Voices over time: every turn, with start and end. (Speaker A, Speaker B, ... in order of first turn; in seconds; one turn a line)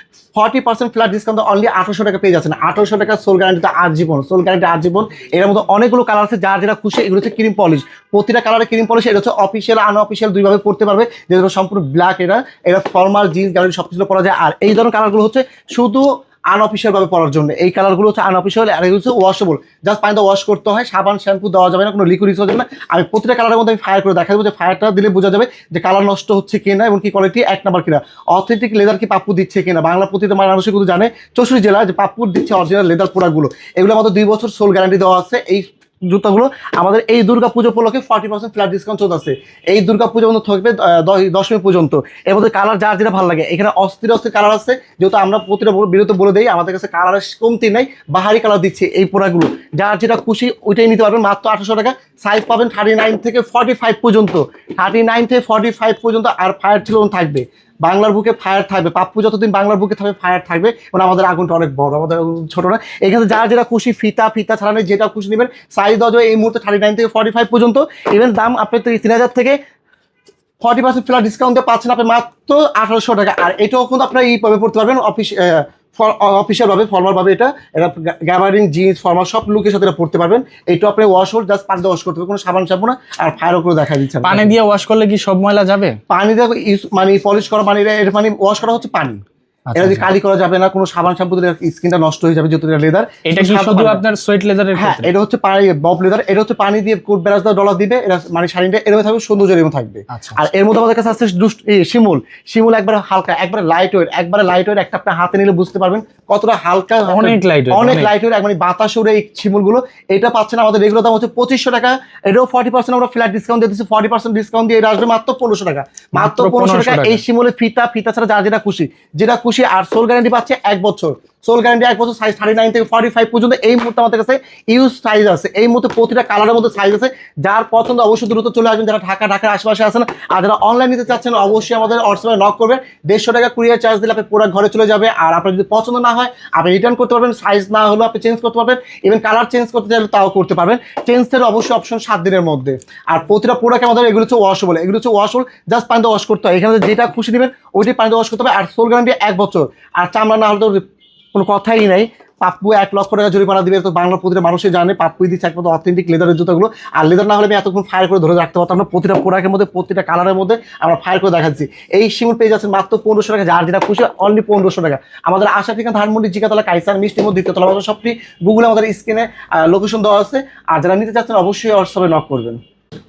Speaker A: 0.3-69.6
Speaker A: 70.6-84.5
Speaker B: 84.2-86.0
Speaker A: 86.1-89.2
Speaker B: 89.7-90.1
Speaker A: 89.8-94.0
Speaker B: 93.3-95.1
Speaker A: 94.8-150.8
Speaker B: 100.1-100.4
Speaker B: 107.1-108.1
Speaker B: 116.2-117.2
Speaker A: 151.3-172.6